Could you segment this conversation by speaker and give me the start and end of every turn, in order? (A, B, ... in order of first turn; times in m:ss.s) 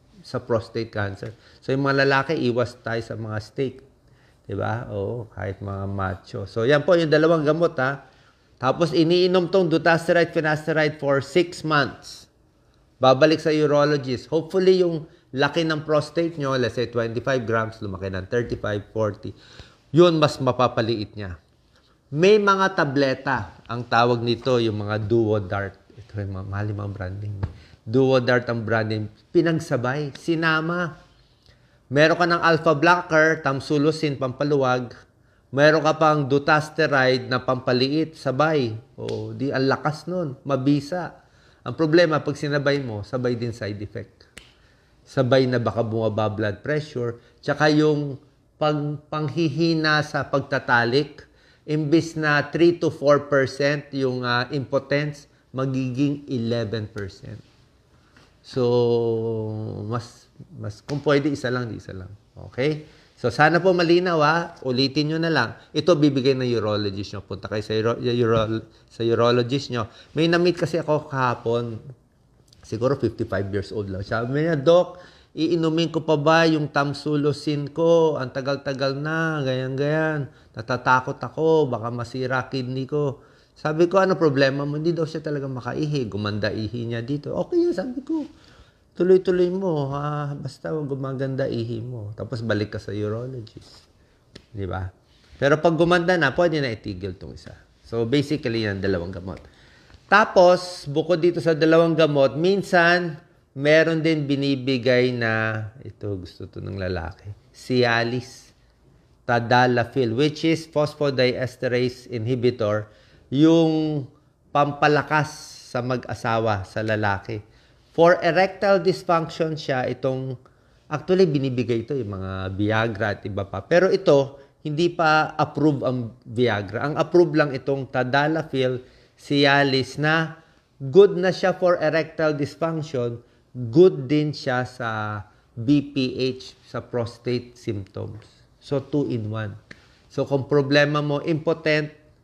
0:00.2-0:03.8 A
0:04.5-0:08.0 A
0:08.6-0:12.3 A
0:13.0-0:19.4 A
0:19.9-0:21.4 A
0:22.1-0:30.9 A
0:31.9-0:34.9 A
0:35.5-0:41.1 A
0:41.7-0:44.2 A
0:45.1-0:57.4 A
0:58.4-1:11.8 A
1:12.7-1:28.3 A
1:29.0-1:33.9 A
1:34.6-1:39.4 A
1:40.1-1:48.5 A
1:49.3-1:57.4 A
1:58.0-2:00.3 A
2:00.9-2:19.6 A
2:20.1-2:21.9 A